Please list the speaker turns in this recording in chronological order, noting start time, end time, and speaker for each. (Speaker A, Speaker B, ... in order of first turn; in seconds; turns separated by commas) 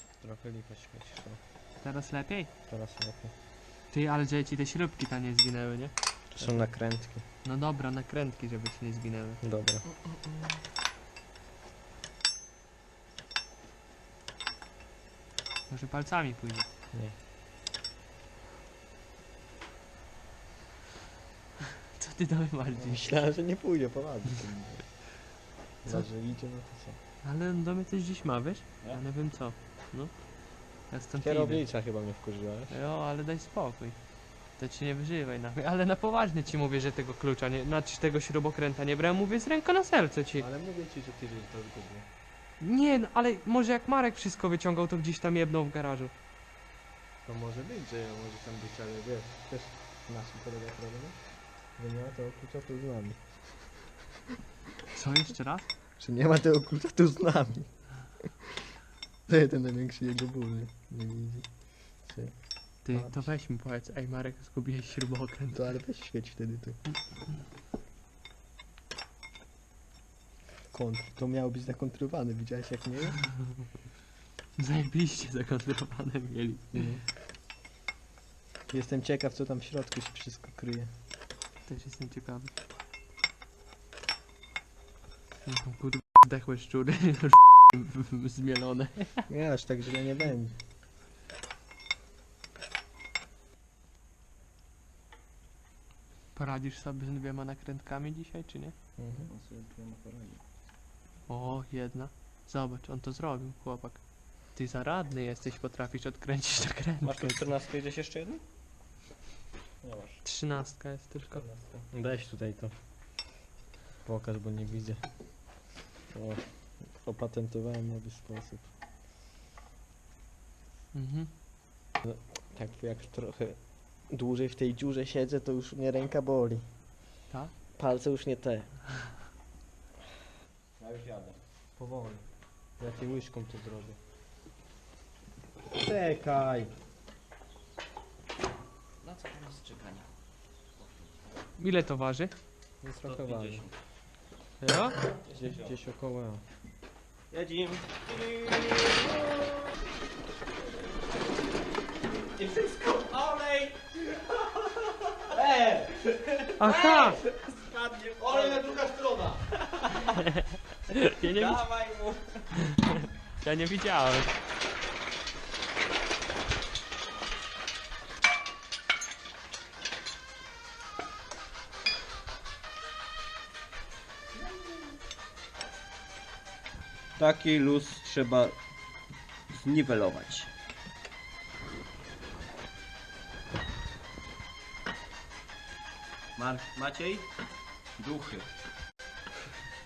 Speaker A: 0.2-1.4, Speaker B: 1.8-2.5, Speaker A: 2.7-3.3, Speaker B: 3.9-6.4, Speaker A: 6.3-7.2, Speaker B: 7.4-9.4, Speaker A: 9.4-9.8, Speaker B: 15.7-16.7, Speaker B: 22.0-23.0, Speaker A: 22.8-25.0, Speaker A: 25.8-27.0, Speaker B: 27.2-31.6, Speaker A: 31.2-32.7, Speaker B: 32.7-40.5, Speaker A: 40.4-42.0, Speaker B: 42.6-46.1, Speaker A: 47.2-53.5, Speaker B: 54.9-55.7, Speaker A: 56.0-57.8, Speaker A: 59.3-63.2, Speaker B: 62.8-65.7, Speaker A: 65.5-66.8, Speaker A: 70.7-73.2, Speaker B: 74.6-76.9, Speaker A: 76.7-77.0, Speaker A: 78.7-80.9, Speaker B: 81.7-82.5, Speaker B: 85.4-89.3, Speaker A: 89.3-90.6, Speaker B: 96.3-98.7, Speaker A: 99.0-99.3, Speaker C: 99.3-100.4, Speaker B: 101.3-107.4, Speaker C: 107.0-108.4, Speaker C: 109.8-110.2, Speaker B: 110.2-111.5, Speaker C: 111.3-111.8, Speaker A: 111.9-112.7, Speaker A: 114.0-115.5, Speaker A: 116.1-118.7, Speaker B: 120.9-121.3, Speaker A: 122.0-126.7, Speaker A: 127.7-128.7, Speaker C: 130.8-131.3, Speaker A: 131.8-132.2, Speaker A: 132.8-134.0, Speaker A: 135.7-136.7, Speaker C: 139.0-140.1, Speaker B: 141.6-142.3, Speaker A: 142.8-143.7, Speaker C: 143.0-143.6, Speaker B: 144.6-145.0, Speaker C: 145.2-145.7, Speaker A: 145.3-146.4, Speaker C: 147.3-149.6, Speaker A: 152.4-153.0, Speaker C: 153.0-154.5, Speaker A: 155.3-155.9, Speaker C: 156.3-158.8, Speaker B: 156.6-157.2, Speaker A: 158.1-159.4, Speaker B: 160.9-161.7, Speaker C: 161.2-162.3, Speaker B: 163.4-164.3, Speaker C: 177.2-178.6, Speaker C: 179.5-180.5, Speaker C: 186.3-187.2, Speaker C: 188.0-188.4